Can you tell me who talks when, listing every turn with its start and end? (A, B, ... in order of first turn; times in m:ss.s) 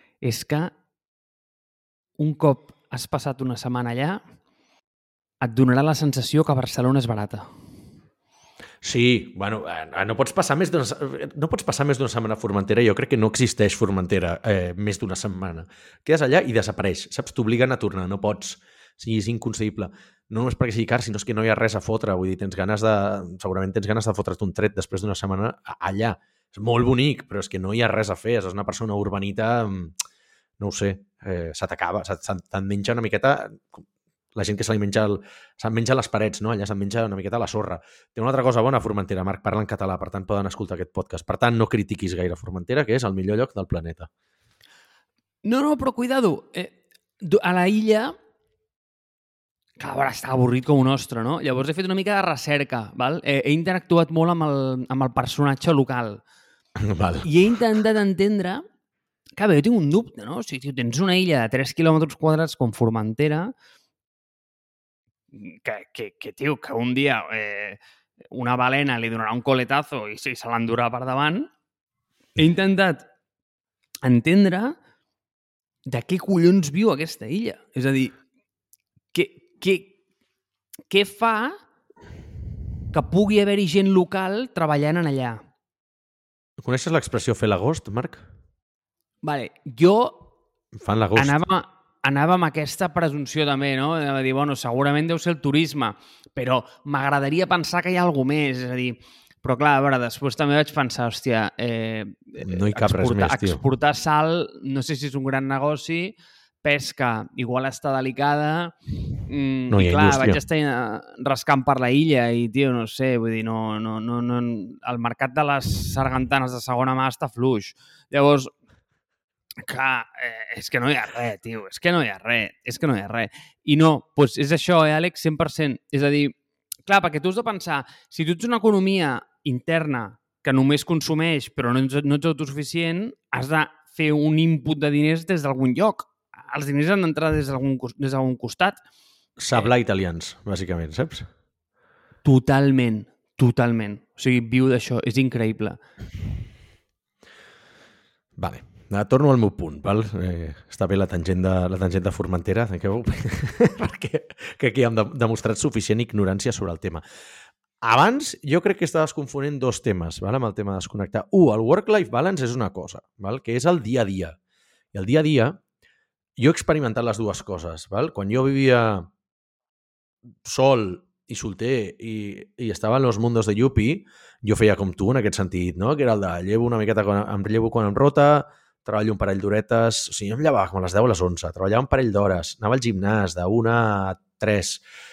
0:00.2-0:00.7 A
0:02.2-0:04.2 A
0:05.4-0:07.5 A
0:08.8-0:30.0 B
0:30.6-0:44.1 B
0:45.4-0:48.1 A
0:49.8-0:56.2 A
0:56.8-0:57.3 B
0:57.2-0:58.6 A
0:59.4-1:03.5 A
1:05.3-1:07.8 A
1:08.3-1:11.5 A
1:12.4-1:13.1 A
1:14.0-1:14.8 A
1:15.9-1:18.2 A
1:19.1-1:20.0 A
1:20.9-1:21.6 A
1:22.9-1:25.4 A
1:26.6-1:28.3 B
1:29.2-1:30.3 A
1:30.8-1:31.4 B
1:31.2-1:48.8 A
1:42.4-1:43.6 B
1:49.3-1:58.5 A
1:49.7-1:50.4 B
1:59.6-2:06.4 A
2:06.9-2:18.8 A
2:19.4-2:21.3 B
2:22.2-2:25.8 A
2:28.4-2:37.0 B
2:37.8-2:44.4 B
2:44.9-2:45.6 B
2:46.4-2:49.1 B
2:50.4-3:04.8 B